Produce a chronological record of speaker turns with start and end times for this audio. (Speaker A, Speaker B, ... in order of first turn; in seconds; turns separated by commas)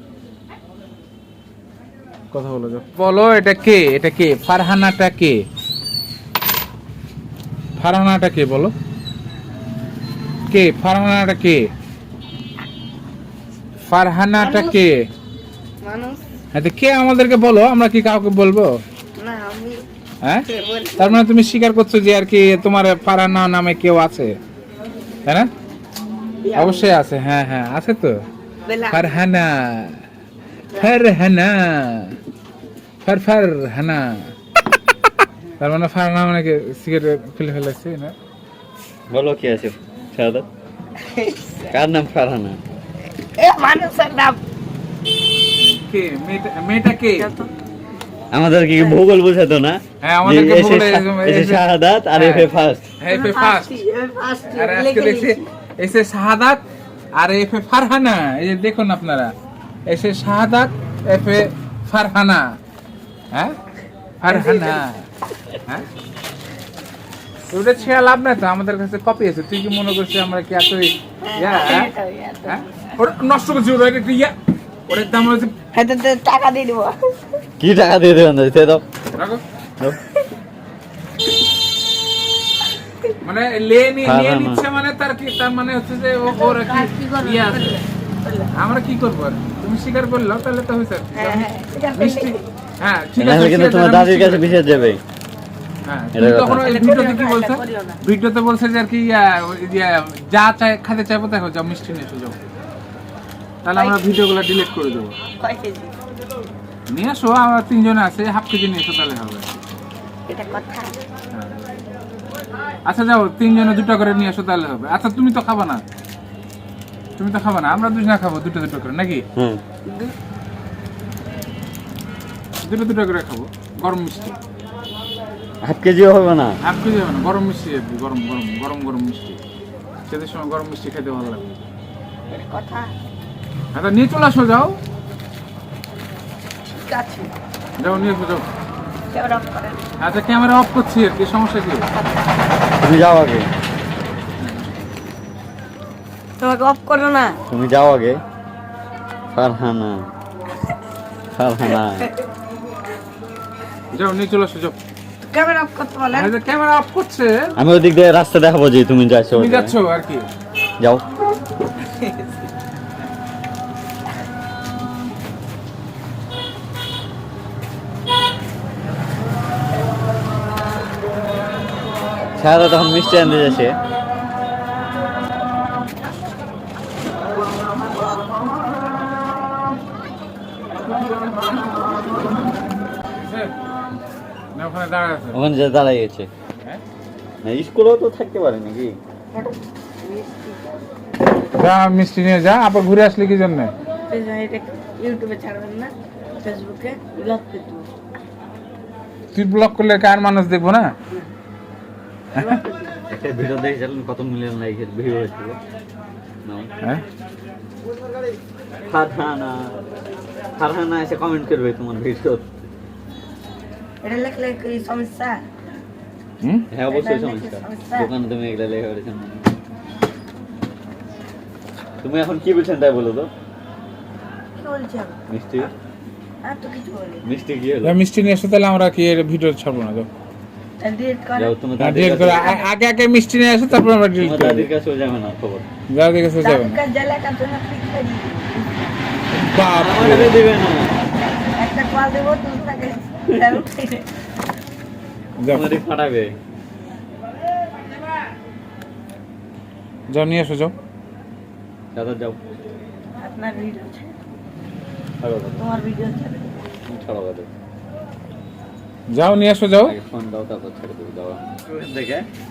Speaker A: 2.3-5.4, Speaker A: 7.8-8.7, Speaker A: 10.5-11.7, Speaker A: 13.8-15.0, Speaker B: 14.4-14.8, Speaker B: 15.8-16.2, Speaker A: 16.5-18.7, Speaker B: 19.2-19.8, Speaker B: 20.5-21.2, Speaker A: 21.0-24.4, Speaker B: 26.4-26.9, Speaker A: 26.6-28.2, Speaker B: 28.7-29.1, Speaker A: 28.9-30.0, Speaker A: 30.8-32.2, Speaker A: 33.0-34.3, Speaker A: 35.6-38.1, Speaker C: 39.1-40.5, Speaker B: 41.0-41.8, Speaker C: 41.7-42.6, Speaker B: 43.4-44.4, Speaker A: 45.6-47.3, Speaker B: 47.2-47.5, Speaker C: 48.3-52.9, Speaker A: 50.0-51.6, Speaker A: 52.1-52.5, Speaker A: 53.0-53.8, Speaker B: 53.1-55.5, Speaker A: 54.5-56.6, Speaker A: 57.2-59.3, Speaker A: 59.9-62.5, Speaker A: 64.2-65.1, Speaker B: 64.3-64.8, Speaker A: 67.5-71.9, Speaker B: 71.2-72.8, Speaker A: 72.5-74.3, Speaker A: 74.9-75.5, Speaker B: 75.7-77.2, Speaker C: 77.6-78.8, Speaker A: 79.2-79.4, Speaker A: 83.2-87.8, Speaker C: 84.0-84.6, Speaker B: 86.3-88.5, Speaker A: 88.5-91.5, Speaker B: 91.2-92.4, Speaker A: 92.0-94.5, Speaker C: 93.2-95.0, Speaker A: 95.8-102.4, Speaker C: 96.2-96.7, Speaker B: 96.5-98.0, Speaker A: 103.7-105.2, Speaker B: 103.8-104.2, Speaker B: 105.4-105.9, Speaker A: 106.9-109.5, Speaker B: 110.3-111.0, Speaker A: 111.3-111.6, Speaker A: 112.9-115.8, Speaker A: 117.2-119.3, Speaker C: 119.4-119.6, Speaker A: 122.6-124.4, Speaker C: 125.6-126.6, Speaker A: 126.6-129.4, Speaker A: 130.1-131.5, Speaker B: 132.3-132.9, Speaker A: 133.7-134.8, Speaker B: 136.8-137.3, Speaker A: 137.8-138.4, Speaker B: 139.1-139.8, Speaker A: 140.0-141.9, Speaker B: 142.0-142.3, Speaker C: 142.8-143.5, Speaker B: 146.4-147.4, Speaker C: 147.5-148.2, Speaker C: 149.3-150.1, Speaker C: 151.3-152.1, Speaker B: 151.7-152.1, Speaker A: 153.9-154.8, Speaker B: 155.3-156.3, Speaker A: 156.1-157.5, Speaker C: 157.6-159.8, Speaker A: 159.3-160.3, Speaker C: 160.8-161.0, Speaker B: 161.8-162.2, Speaker C: 172.4-173.8, Speaker A: 183.2-183.5, Speaker A: 184.6-185.4, Speaker C: 185.3-186.3, Speaker C: 187.4-189.0, Speaker B: 189.3-190.8, Speaker A: 191.6-193.7, Speaker B: 194.1-197.9, Speaker A: 199.3-200.9, Speaker A: 202.3-202.6, Speaker B: 202.4-202.9, Speaker C: 203.1-205.6, Speaker C: 206.4-206.7, Speaker C: 208.9-209.8, Speaker C: 210.6-212.5, Speaker B: 214.0-215.4, Speaker A: 216.4-216.7, Speaker C: 216.7-219.6, Speaker B: 216.9-218.1, Speaker C: 222.0-223.3, Speaker B: 224.6-225.2, Speaker C: 225.3-225.7, Speaker B: 226.4-227.2, Speaker C: 227.2-228.0, Speaker A: 227.8-230.1, Speaker B: 230.8-231.5, Speaker C: 231.3-232.5, Speaker A: 231.8-234.7, Speaker B: 232.2-232.6, Speaker C: 234.2-235.7, Speaker A: 235.9-236.8, Speaker B: 236.4-238.9, Speaker A: 239.3-240.4, Speaker C: 239.6-241.0, Speaker B: 241.6-244.1, Speaker C: 243.3-243.6, Speaker A: 245.4-245.8, Speaker C: 245.5-246.3, Speaker A: 250.1-250.7, Speaker C: 251.9-252.4, Speaker B: 253.2-254.2, Speaker C: 255.2-255.6, Speaker B: 255.6-256.4, Speaker C: 256.9-257.5, Speaker A: 259.1-259.9, Speaker C: 259.8-262.3